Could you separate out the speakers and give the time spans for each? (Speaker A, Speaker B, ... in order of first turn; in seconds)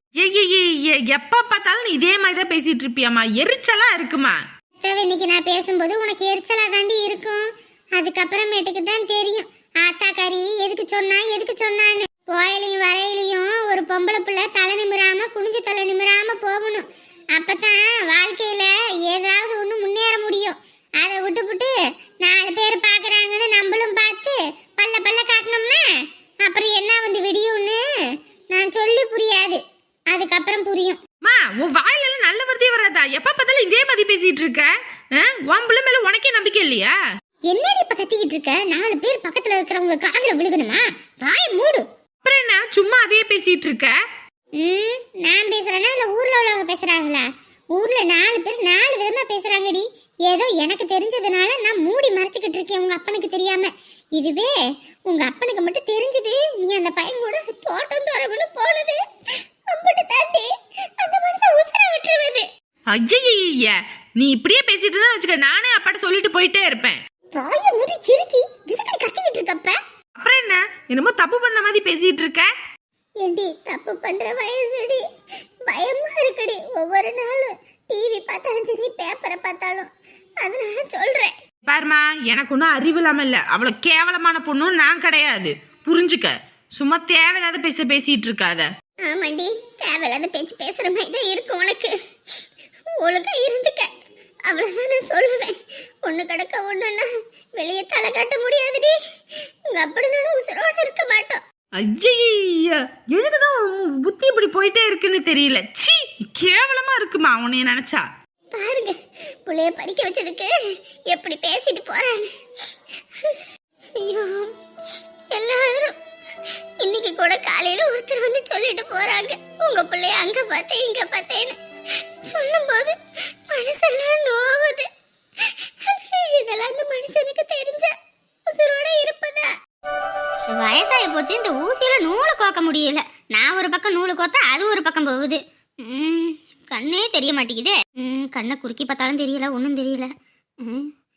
Speaker A: 0.2-4.4, 31.2-37.0, 42.2-43.9, 62.9-67.0, 70.2-72.5, 81.7-88.7, 101.8-108.0
Speaker B: 4.8-7.4, 8.0-16.9, 17.4-25.8, 26.4-27.8, 28.5-31.0, 37.5-41.8, 44.6-54.5, 55.1-59.0, 59.7-62.5, 67.3-69.8, 73.2-75.0, 75.7-79.9, 80.4-81.3, 89.0-92.0, 93.0-93.9, 94.5-99.0, 99.7-101.4, 108.5-110.5, 111.1-112.3, 114.0-114.5, 115.3-116.0, 116.8-121.6, 122.3-123.0, 123.5-124.9, 125.9-127.9, 128.5-129.5
Speaker C: 130.5-140.1, 140.6-140.9